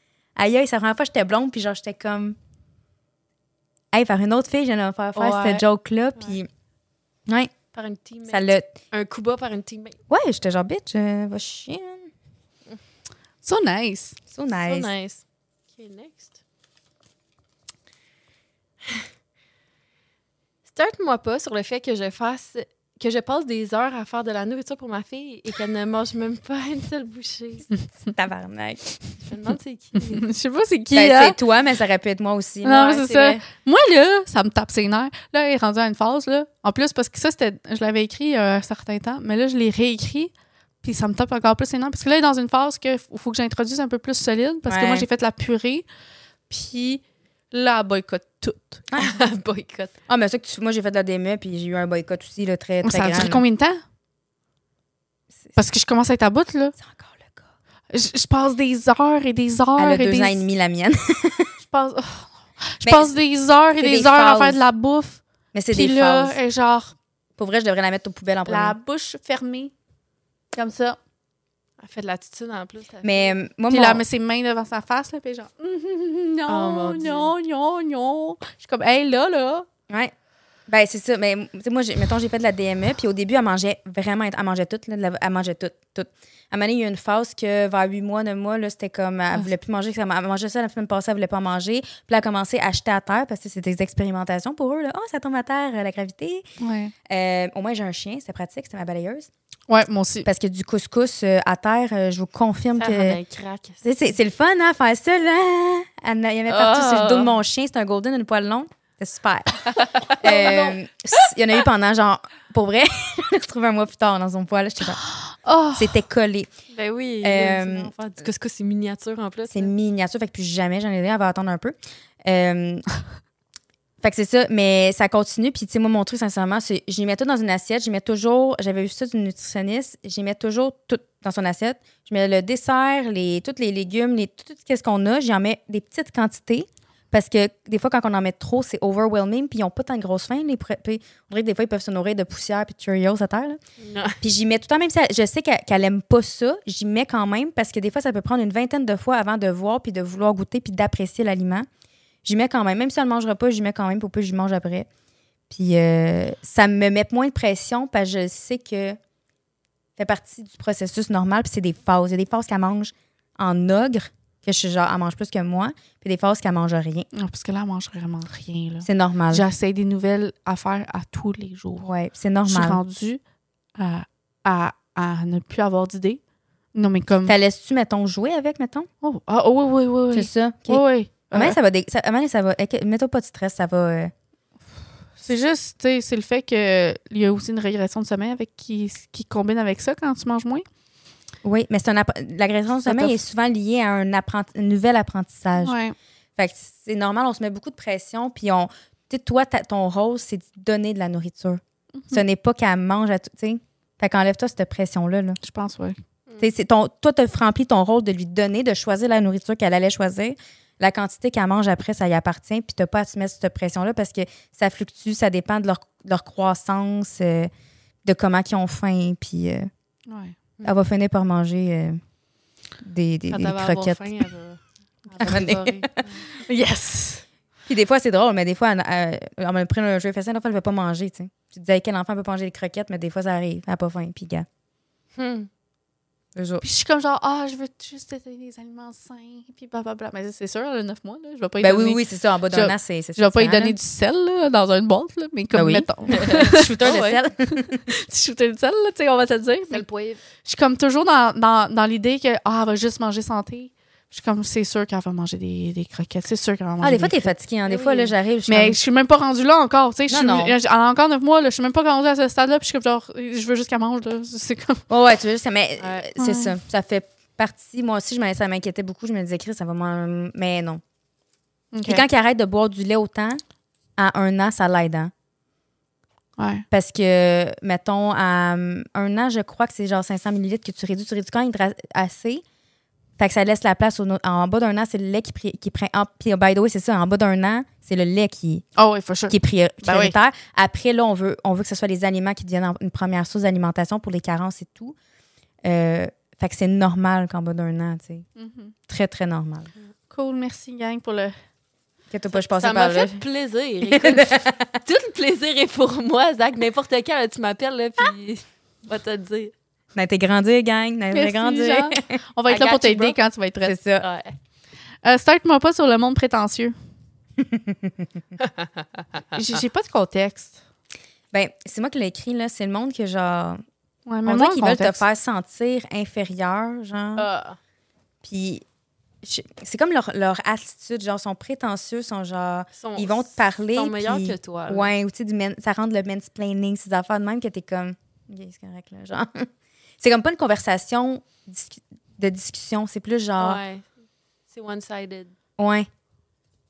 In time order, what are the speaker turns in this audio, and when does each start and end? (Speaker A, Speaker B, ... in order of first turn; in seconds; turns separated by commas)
Speaker A: 0.3-2.4, Speaker A: 3.9-6.5, Speaker B: 5.1-5.6, Speaker A: 7.3-7.5, Speaker B: 7.7-10.0, Speaker A: 8.3-8.8, Speaker A: 10.1-12.1, Speaker C: 13.4-14.2, Speaker A: 14.3-14.9, Speaker B: 14.6-15.2, Speaker B: 15.7-16.3, Speaker B: 20.7-27.7, Speaker A: 28.1-28.9, Speaker B: 29.2-30.3, Speaker C: 30.0-31.4, Speaker A: 30.9-33.0, Speaker C: 32.6-40.3, Speaker B: 32.8-33.4, Speaker C: 40.8-45.9, Speaker A: 44.6-45.0, Speaker C: 46.5-48.8, Speaker A: 48.9-49.1, Speaker B: 49.0-49.9, Speaker A: 50.1-53.4, Speaker C: 52.8-53.8, Speaker C: 55.5-56.8, Speaker A: 56.8-57.5, Speaker C: 57.9-60.4, Speaker A: 59.8-61.5, Speaker C: 61.6-66.9, Speaker A: 62.8-63.1, Speaker A: 63.7-64.6, Speaker A: 65.5-66.4, Speaker A: 67.4-68.8, Speaker C: 68.5-69.7, Speaker C: 70.5-71.0, Speaker B: 71.8-73.4, Speaker A: 73.0-74.0, Speaker C: 73.7-79.7, Speaker B: 76.5-77.3, Speaker A: 80.7-96.4, Speaker C: 96.6-96.9, Speaker A: 97.1-99.3, Speaker C: 99.7-100.3, Speaker A: 100.2-103.2, Speaker B: 102.8-103.8, Speaker A: 103.8-115.0, Speaker B: 106.5-107.3, Speaker B: 109.7-111.2, Speaker C: 115.2-115.9, Speaker A: 115.7-116.5, Speaker B: 116.7-119.7, Speaker A: 117.2-117.9, Speaker A: 119.5-122.8, Speaker A: 124.0-143.6, Speaker B: 143.8-144.2, Speaker A: 144.2-151.7, Speaker A: 152.2-154.9, Speaker A: 155.5-159.0, Speaker A: 160.0-167.1, Speaker C: 167.1-171.9, Speaker A: 168.8-169.4, Speaker A: 171.8-172.8, Speaker C: 172.4-173.2, Speaker C: 173.8-176.2, Speaker C: 176.7-177.3, Speaker A: 177.2-178.9, Speaker C: 179.0-181.6, Speaker A: 180.1-184.1, Speaker C: 185.2-190.6, Speaker A: 191.4-195.8, Speaker C: 192.8-193.2, Speaker C: 195.6-195.9, Speaker A: 196.4-205.4, Speaker C: 205.4-206.0, Speaker A: 206.4-217.5, Speaker A: 218.0-219.7, Speaker C: 220.1-220.3, Speaker A: 220.6-222.0, Speaker A: 222.8-224.1, Speaker B: 223.3-226.2, Speaker A: 225.2-226.0, Speaker C: 226.3-227.2, Speaker A: 227.7-234.5, Speaker B: 235.2-235.5, Speaker A: 236.3-236.6, Speaker C: 236.6-249.8, Speaker A: 241.6-243.8, Speaker A: 245.5-247.8, Speaker B: 246.1-247.2, Speaker B: 249.7-250.2, Speaker C: 250.4-257.3, Speaker A: 256.8-258.8, Speaker B: 257.6-258.1, Speaker C: 258.5-264.8, Speaker A: 260.1-260.6, Speaker A: 264.9-270.8, Speaker B: 265.8-266.1, Speaker C: 266.2-266.5, Speaker C: 271.7-272.0, Speaker A: 271.9-273.4, Speaker A: 274.0-275.1, Speaker C: 276.4-276.6, Speaker A: 276.7-282.4, Speaker A: 283.2-288.6, Speaker C: 288.8-290.1, Speaker A: 289.3-294.9, Speaker A: 295.6-298.3, Speaker C: 298.4-298.7, Speaker A: 298.9-299.7, Speaker C: 300.1-301.3, Speaker A: 302.1-303.2, Speaker B: 302.3-309.5, Speaker A: 303.9-304.8, Speaker A: 309.9-312.2, Speaker C: 311.1-313.8, Speaker B: 312.5-313.2, Speaker A: 313.6-314.0, Speaker B: 314.0-314.3, Speaker C: 315.0-316.7, Speaker A: 317.4-318.1, Speaker B: 318.4-318.8, Speaker C: 319.3-320.6, Speaker A: 321.3-323.6, Speaker C: 324.1-325.0, Speaker A: 324.2-327.3, Speaker B: 327.1-327.6, Speaker A: 328.2-328.6, Speaker A: 329.2-339.5, Speaker B: 332.8-334.9, Speaker A: 340.0-343.6, Speaker B: 343.4-343.8, Speaker B: 344.5-345.3, Speaker A: 345.6-345.9